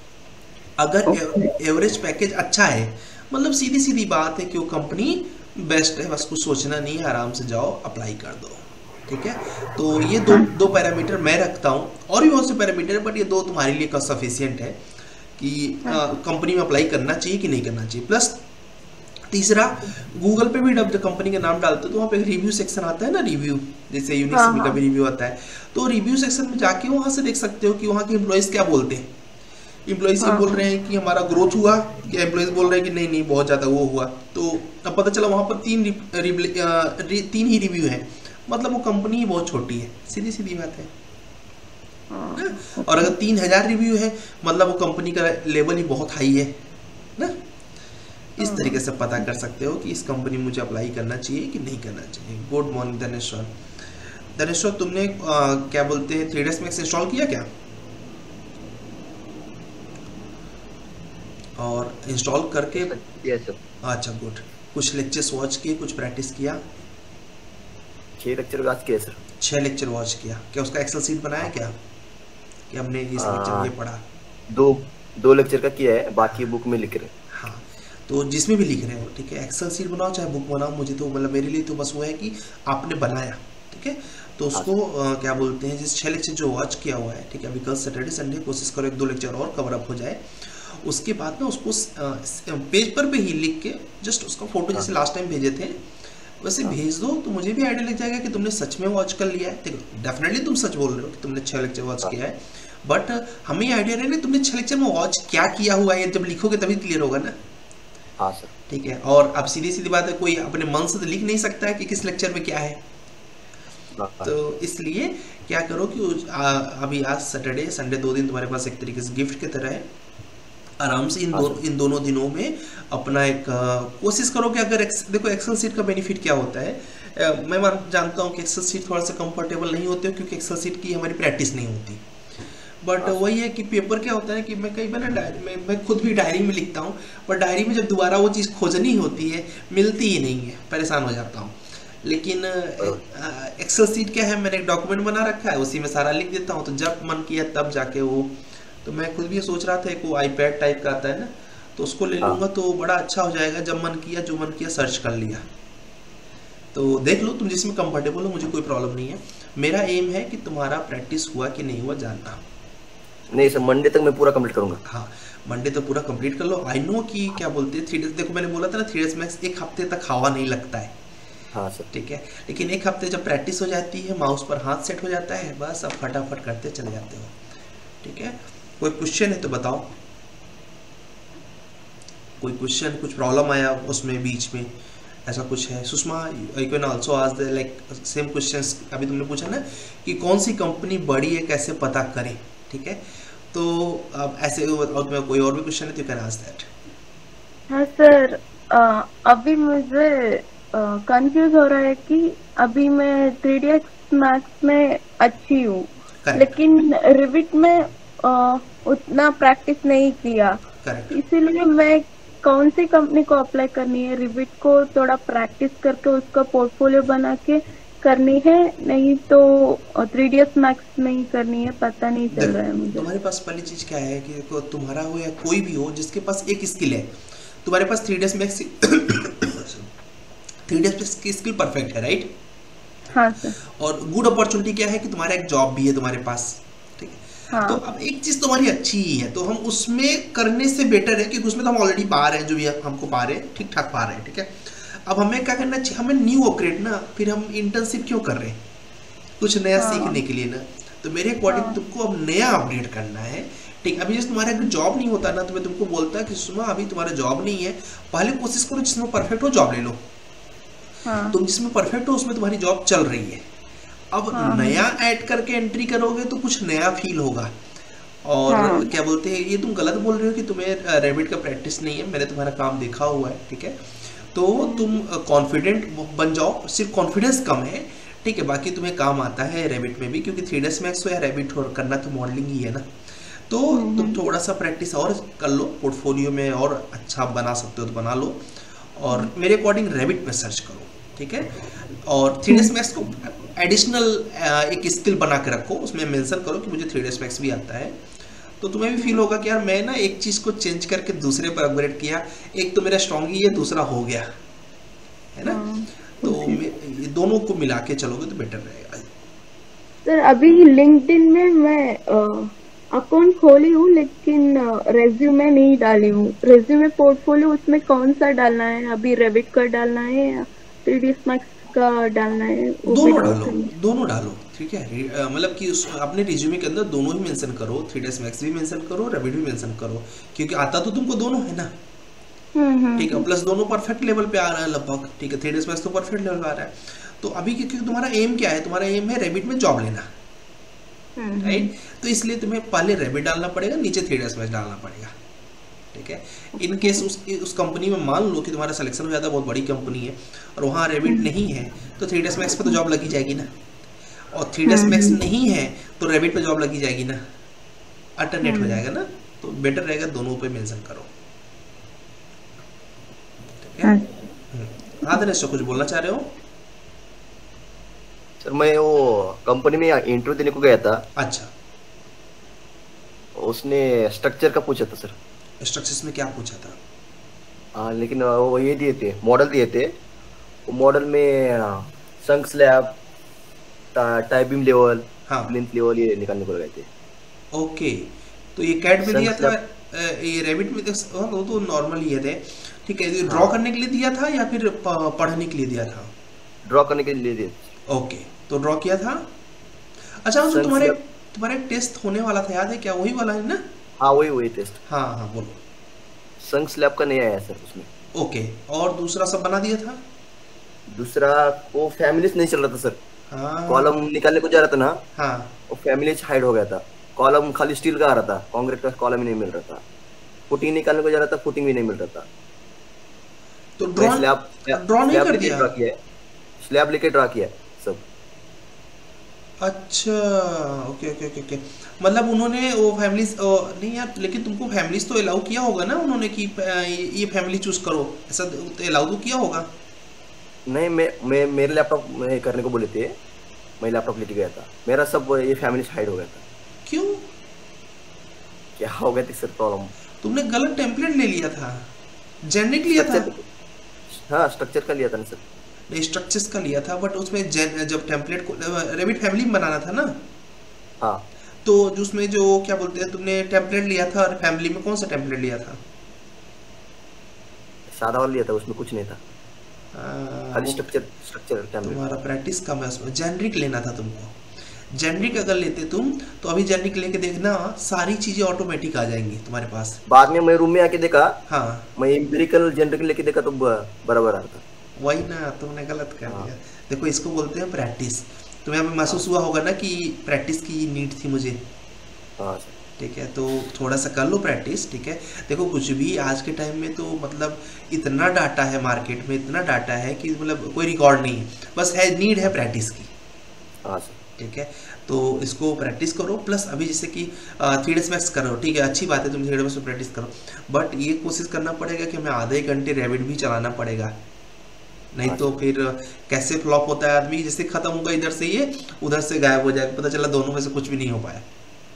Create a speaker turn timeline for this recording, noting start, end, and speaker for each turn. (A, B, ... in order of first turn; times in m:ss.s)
0:00.8-0:18.4 A
0:01.1-0:01.5 B
0:19.3-0:29.1 A
0:24.3-0:24.8 B
0:29.8-0:40.9 A
0:30.2-0:30.6 B
0:42.1-0:43.1 B
0:42.4-0:46.6 A
0:48.4-0:57.5 A
0:48.4-0:49.2 B
1:01.6-1:02.9 A
1:02.7-1:03.6 C
1:03.8-1:06.6 A
1:08.2-1:09.2 C
1:09.4-1:11.8 A
1:12.7-1:14.0 A
1:13.2-1:13.7 C
1:14.5-1:17.1 C
1:17.3-1:35.8 A
1:36.4-1:47.3 A
1:48.2-1:48.5 C
1:48.7-1:52.8 A
1:54.0-1:54.3 C
1:54.2-1:59.9 A
2:00.8-2:12.0 A
2:01.3-2:01.6 C
2:12.8-2:35.4 A
2:36.7-2:42.4 A
2:43.3-2:44.8 C
2:44.8-2:50.9 A
2:51.5-2:51.9 C
2:51.9-2:57.4 A
2:58.0-2:59.9 A
3:02.4-3:04.7 A
3:05.2-3:16.7 A
3:17.7-3:30.6 B
3:26.2-3:26.6 A
3:30.8-3:31.2 A
3:31.1-3:43.1 B
3:42.3-3:49.9 A
3:50.7-3:52.3 A
3:53.1-3:53.6 B
3:53.6-4:08.6 A
3:57.5-3:57.8 B
4:09.4-4:20.0 A
4:09.8-4:10.2 B
4:11.5-4:11.8 B
4:21.0-4:21.4 B
4:21.3-4:23.4 A
4:24.1-4:27.5 A
4:24.3-4:24.8 B
4:28.2-4:58.0 A
4:28.5-4:28.9 B
4:34.6-4:34.8 B
4:43.7-4:44.2 B
4:58.6-5:04.3 A
5:05.3-5:05.6 A
5:05.4-5:06.6 B
5:06.2-5:09.1 A
5:10.0-5:23.7 B
5:22.8-5:31.7 A
5:32.5-5:33.3 B
5:33.0-5:40.1 A
5:41.2-5:41.7 B
5:41.4-5:45.1 A
5:45.9-5:53.5 A
5:46.6-5:47.0 B
5:54.3-5:57.2 A
5:54.6-5:55.2 B
5:58.2-6:01.1 A
5:58.4-5:58.8 B
6:03.6-6:03.9 A
6:03.8-6:04.1 B
6:04.5-6:06.3 A
6:08.4-6:11.0 C
6:11.2-6:11.5 A
6:13.4-6:15.2 C
6:15.6-6:16.8 A
6:17.7-6:19.9 C
6:20.7-6:22.9 C
6:23.9-6:26.9 C
6:25.3-6:25.5 A
6:27.5-6:36.1 A
6:29.0-6:29.5 C
6:33.2-6:33.5 C
6:36.7-6:37.7 C
6:37.9-6:39.3 A
6:40.2-6:43.6 A
6:40.4-6:41.0 C
6:44.0-6:44.8 C
6:44.9-6:45.6 A
6:46.4-6:47.9 C
6:48.1-6:50.0 A
6:50.9-6:53.0 C
6:53.3-6:54.0 A
6:53.7-6:55.0 C
6:55.2-6:55.5 A
6:55.7-6:59.8 C
7:00.5-7:02.3 C
7:03.8-7:05.7 A
7:04.0-7:05.9 C
7:06.6-7:08.0 C
7:09.6-7:19.7 A
7:20.7-7:23.1 C
7:23.8-7:26.4 C
7:26.8-7:27.3 A
7:28.8-7:29.9 C
7:30.2-7:31.9 A
7:32.4-7:33.3 A
7:32.9-7:33.4 C
7:34.1-7:35.4 C
7:35.9-7:40.2 A
7:41.6-7:45.8 A
7:47.9-7:49.2 C
7:49.9-7:50.8 A
7:50.5-7:52.0 C
7:51.8-7:54.4 A
7:54.9-8:00.0 A
8:00.1-8:01.4 C
8:01.5-8:01.9 A
8:02.0-8:04.6 C
8:05.0-8:11.6 A
8:12.4-8:12.8 C
8:13.0-8:23.1 A
8:23.8-8:24.2 C
8:24.4-8:34.1 A
8:35.1-8:41.4 A
8:35.2-8:35.6 C